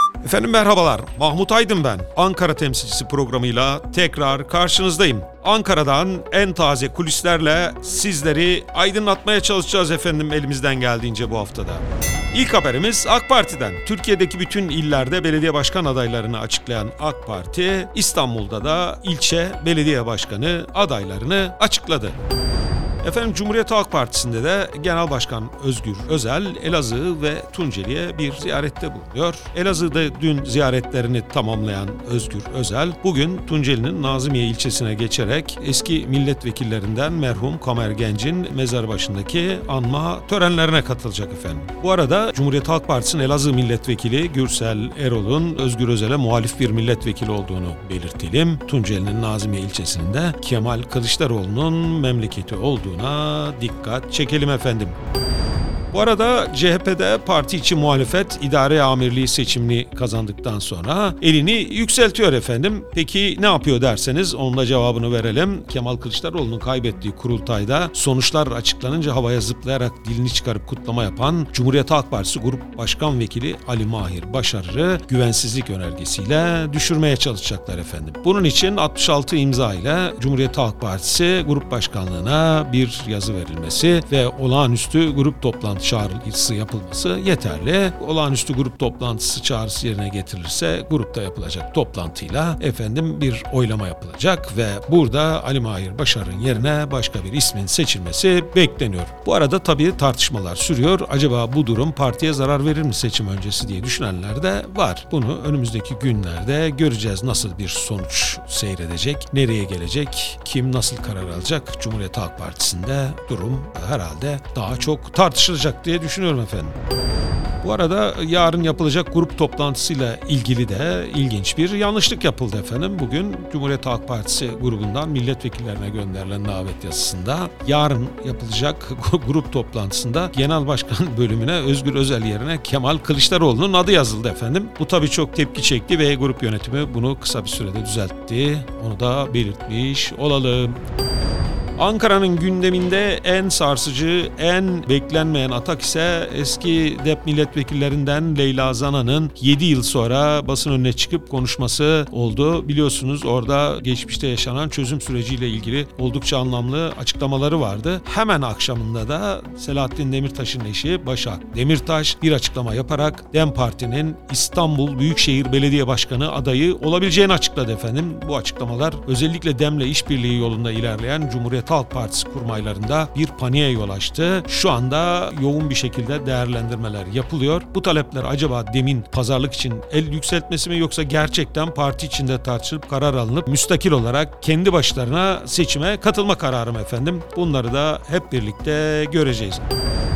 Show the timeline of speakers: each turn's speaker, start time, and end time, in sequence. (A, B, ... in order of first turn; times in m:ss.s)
0:00.2-0:22.2 A
0:23.0-0:54.9 A
0:55.9-1:56.7 A
1:57.6-2:20.8 A
2:21.8-3:09.6 A